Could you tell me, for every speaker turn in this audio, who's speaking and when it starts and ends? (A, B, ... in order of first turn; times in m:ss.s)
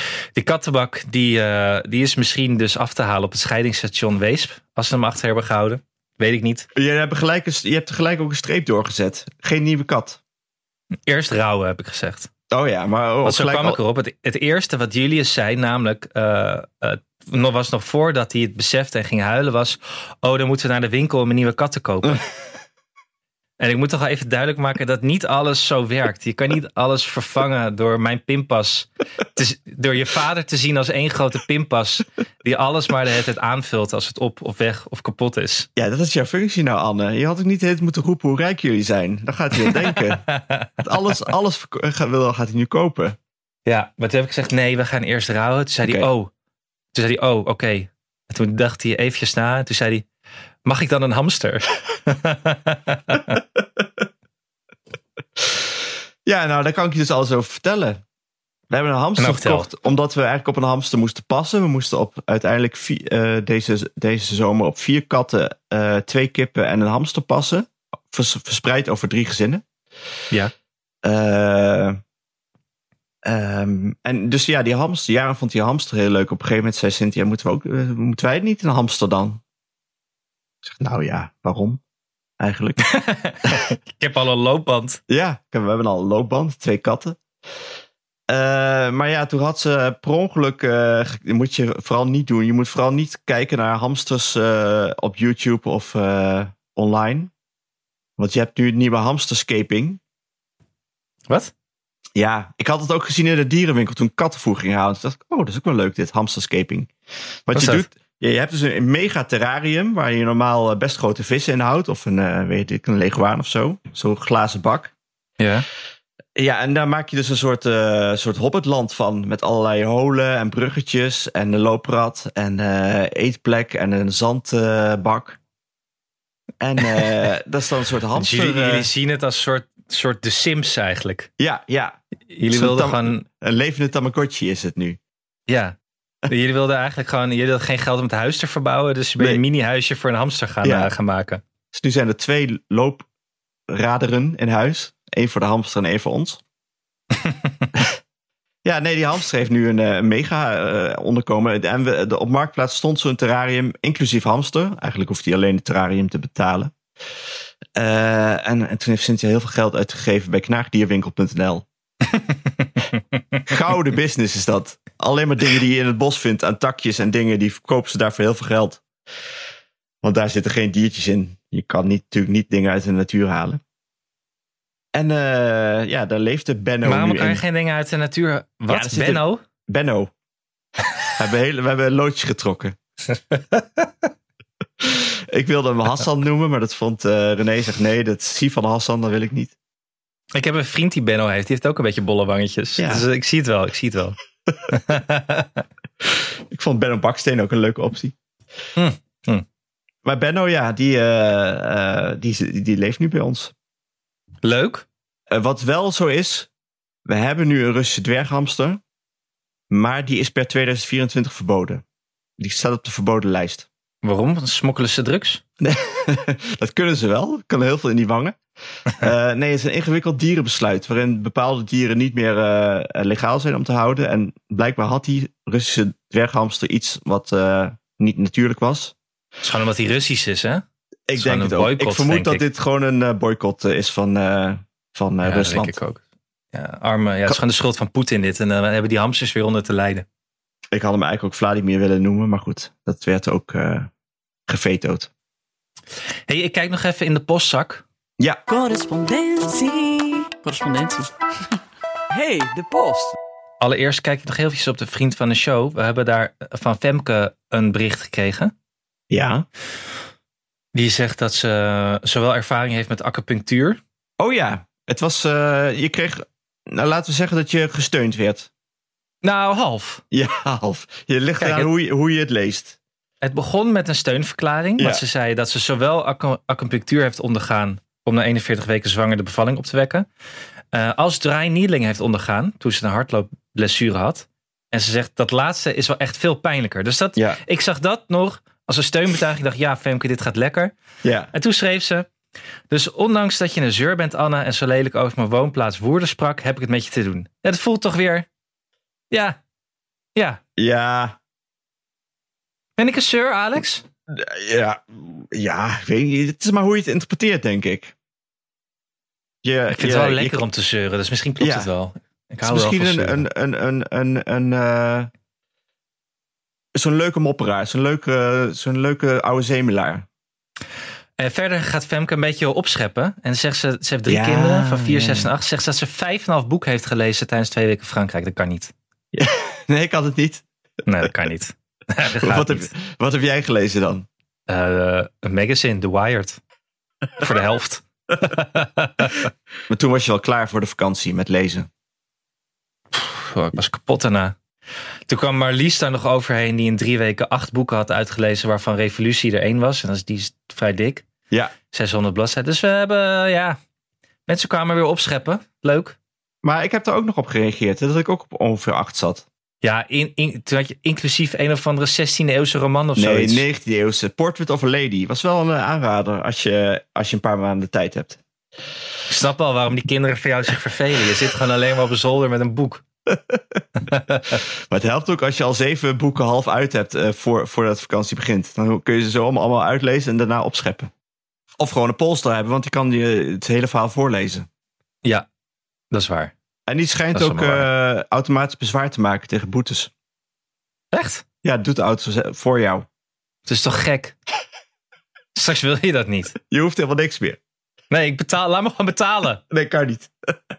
0:00.4-0:06.7 A
0:06.8-0:10.2 B
0:11.1-0:12.3 A
0:12.5-0:13.8 B
0:13.2-0:22.2 A
0:23.6-0:35.7 A
0:35.8-0:40.2 B
0:39.7-0:40.7 A
0:40.8-0:43.2 B
0:43.7-0:46.3 A
0:45.8-0:46.1 B
0:46.9-0:50.1 A
0:50.6-0:53.4 A
0:53.6-0:54.1 B
0:55.4-0:58.0 B
0:58.7-1:09.6 B
0:59.2-0:59.7 A
1:11.0-1:12.0 B
1:13.2-1:19.4 B
1:20.6-1:21.8 B
1:22.4-1:23.8 B
1:22.9-1:25.0 A
1:25.1-1:27.2 B
1:28.3-1:37.3 B
1:38.2-1:40.0 B
1:42.2-1:46.9 B
1:47.5-1:54.9 B
1:47.5-1:47.9 A
1:55.4-1:55.7 A
1:56.4-2:05.4 B
2:06.6-2:08.9 B
2:08.2-2:11.3 A
2:11.4-2:15.0 B
2:12.3-2:13.2 A
2:15.5-2:15.8 A
2:16.3-2:21.4 A
2:20.6-2:20.9 B
2:21.7-2:23.1 B
2:23.7-2:26.4 B
2:27.2-2:27.5 A
2:28.6-2:36.7 B
2:37.8-2:41.7 B
2:43.5-2:48.8 B
2:50.0-2:53.6 B
2:54.9-2:57.4 B
2:56.8-2:59.4 A
2:58.7-3:00.1 B
3:01.2-3:02.8 B
3:03.3-3:03.8 A
3:04.8-3:09.6 B
3:10.4-3:14.2 A
3:12.8-3:13.1 B
3:14.7-3:15.6 A
3:16.0-3:18.2 B
3:18.8-3:19.4 A
3:20.0-3:23.5 B
3:24.4-3:24.8 A
3:25.3-3:26.5 B
3:27.1-3:28.8 B
3:29.7-3:31.8 B
3:32.4-3:33.7 B
3:34.0-3:35.4 A
3:35.6-3:49.0 B
3:49.4-3:50.6 A
3:51.1-3:55.8 B
3:51.2-3:52.4 A
3:55.2-3:56.0 A
3:56.5-4:00.0 A
4:00.7-4:03.9 B
4:04.5-4:05.1 B
4:06.3-4:07.8 A
4:08.5-4:11.1 C
4:12.1-4:13.1 C
4:13.6-4:18.5 A
4:19.1-4:19.5 B
4:20.8-4:23.8 A
4:24.2-4:28.5 B
4:29.2-4:30.0 A
4:30.1-4:32.8 B
4:31.4-4:31.7 A
4:33.2-4:40.1 A
4:34.8-4:35.0 B
4:40.7-4:50.7 A
4:51.0-4:51.3 B
4:51.3-4:52.1 A
4:52.7-4:58.3 A
4:59.1-4:59.4 A
5:00.6-5:01.2 B
5:02.8-5:03.8 A
5:04.1-5:07.9 B
5:09.4-5:10.4 B
5:09.7-5:13.3 A
5:11.4-5:11.7 B
5:12.4-5:15.1 B
5:16.8-5:20.1 B
5:21.2-5:28.7 A
5:24.1-5:25.3 B
5:29.1-5:30.4 B
5:30.9-5:32.7 A
5:32.2-5:34.1 B
5:34.5-5:36.4 A
5:37.2-5:39.2 A
5:39.7-5:41.7 B
5:42.9-5:44.4 A
5:45.1-5:51.1 A
5:51.7-5:53.6 A
5:54.3-5:56.0 A
5:56.4-5:59.2 B
5:59.6-6:03.4 A
6:03.0-6:08.2 B
6:09.1-6:12.8 A
6:13.1-6:13.6 B
6:13.9-6:14.4 A
6:14.4-6:20.9 B
6:21.6-6:24.5 B
6:25.9-6:26.3 A
6:26.7-6:29.9 B
6:27.1-6:27.7 A
6:30.9-6:31.2 A
6:31.4-6:32.9 B
6:33.5-6:34.2 A
6:35.4-6:36.4 A
6:36.5-6:37.4 B
6:37.9-6:39.4 A
6:39.5-6:40.4 B